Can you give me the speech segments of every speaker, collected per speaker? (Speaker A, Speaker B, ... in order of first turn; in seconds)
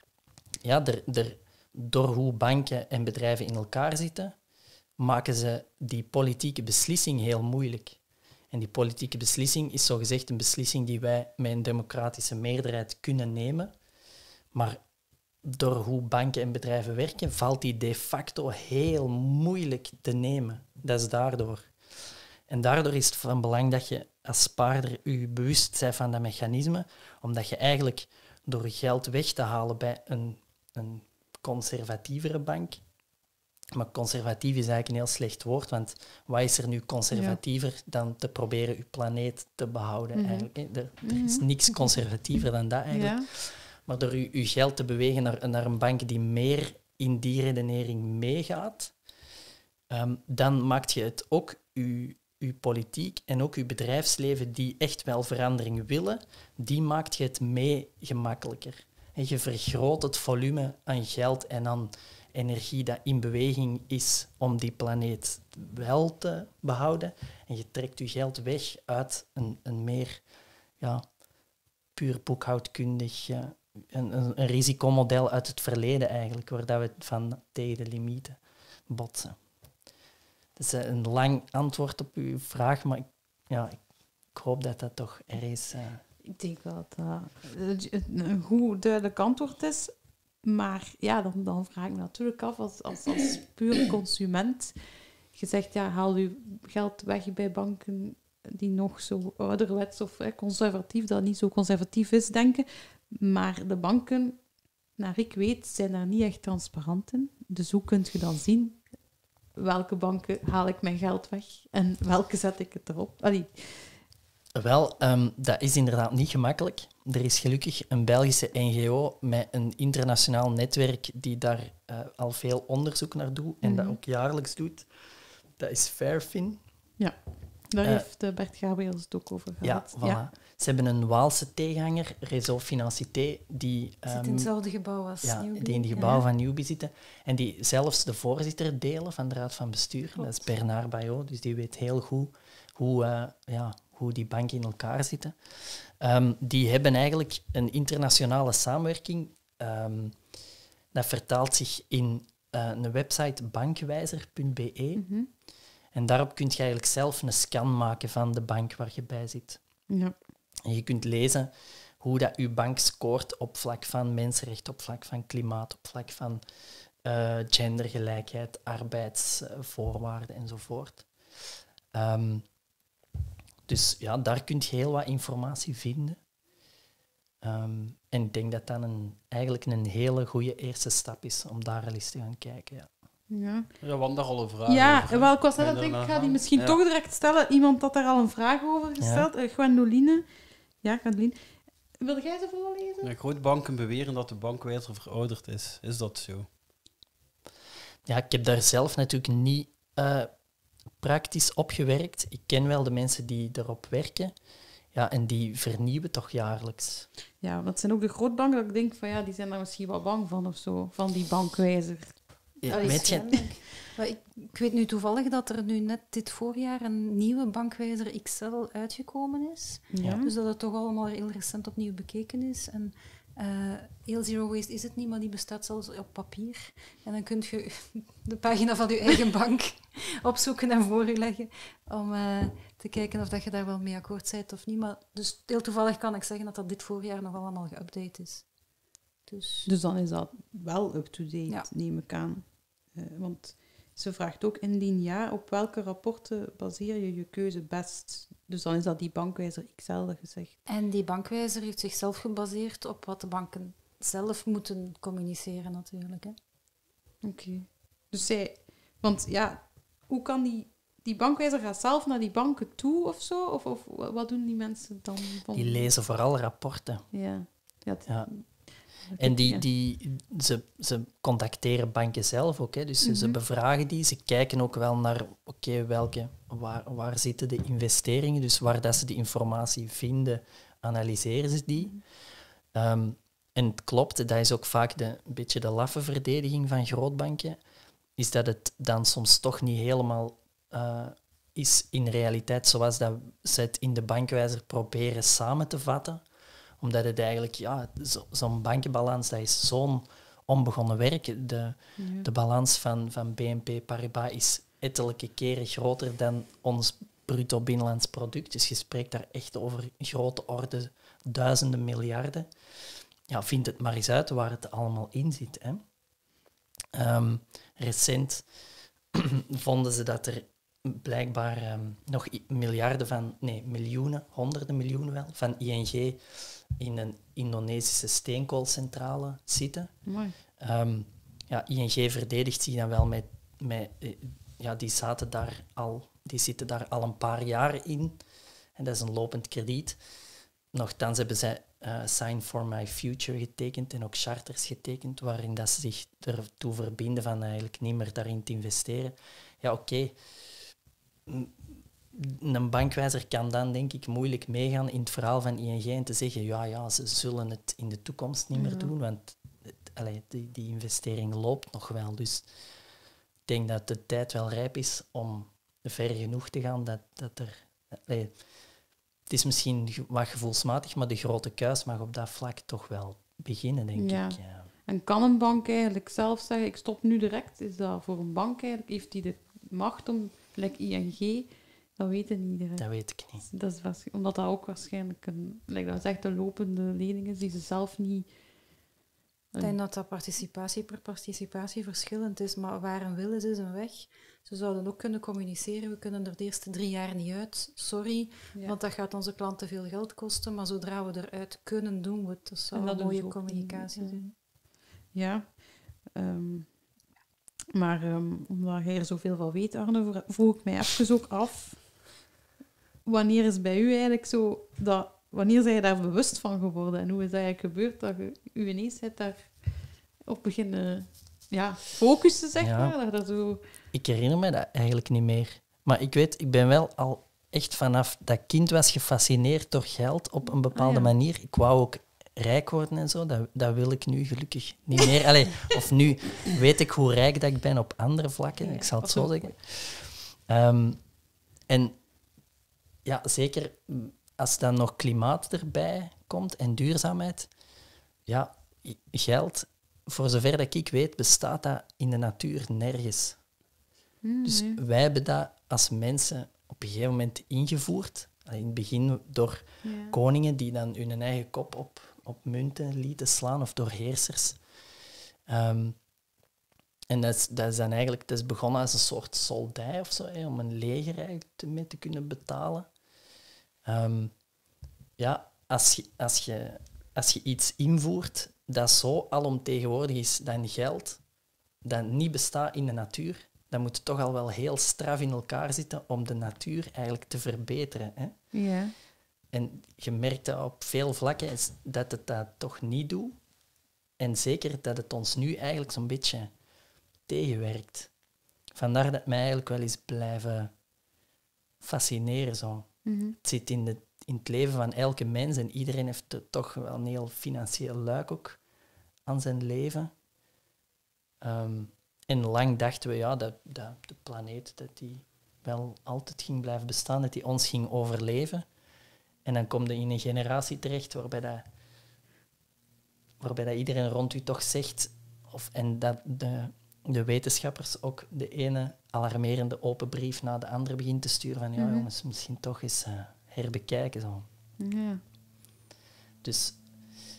Speaker A: 0.6-4.4, 5.0-8.0, 8.5-13.7, 14.5-14.8, 15.4-21.7, 22.5-32.8, 33.7-49.0, 49.9-70.2, 70.8-71.1, 72.0-79.4, 80.6-86.0, 114.5-124.9, 125.6-126.6, 129.6-134.5, 135.2-150.2, 150.9-155.1, 155.9-159.6, 160.7-166.4, 167.0-171.1, 171.9-172.4, 173.7-176.2, 177.4-182.9, 189.0-189.3, 198.1-200.3, 201.0-204.3, 204.9-207.1, 212.6-213.6, 265.5-267.1, 268.1-282.0, 282.7-287.6, 288.2-296.2, 296.8-312.5, 313.3-315.8, 316.9-318.5, 319.1-329.9, 330.6-338.2, 338.8-340.0, 340.7-350.2, 351.3-362.5, 363.5-368.5, 369.3-374.7, 382.8-383.4, 422.6-422.9, 423.9-441.0, 441.7-442.0, 443.0-447.5, 448.3-453.4, 454.4-464.6, 465.5-466.0, 467.1-472.9, 473.9-474.3, 475.2-481.2, 481.8-488.4, 489.5-493.4, 494.2-496.5, 497.3-498.1, 498.7-500.7, 501.8-508.6, 509.3-510.1, 511.4-518.7, 519.5-521.7, 523.4-534.5, 536.4-536.8
Speaker B: 37.1-37.4, 40.1-40.5, 41.0-41.5, 42.9-43.3, 86.2-108.9, 109.5-114.0, 123.6-124.0, 127.0-130.3, 155.0-155.3, 183.3-183.7, 184.7-190.3, 190.8-193.1, 207.4-213.5, 219.9-220.3, 239.7-250.6, 257.2-265.9, 267.1-269.6, 273.0-273.4, 302.0-302.3, 330.1-330.4, 358.6-358.9, 374.0-382.9, 383.4-388.3, 402.7-404.4, 405.1-406.9, 407.7-412.1, 413.1-423.6, 430.7-431.1, 438.6-439.6, 454.2-454.8, 459.8-460.2, 488.5-488.9, 503.1-503.4, 531.8-532.1, 534.8-535.2
Speaker C: 134.1-136.2, 212.7-238.5, 239.3-239.7, 250.7-256.4, 389.6-404.3
Speaker D: 183.8-186.8, 193.0-196.5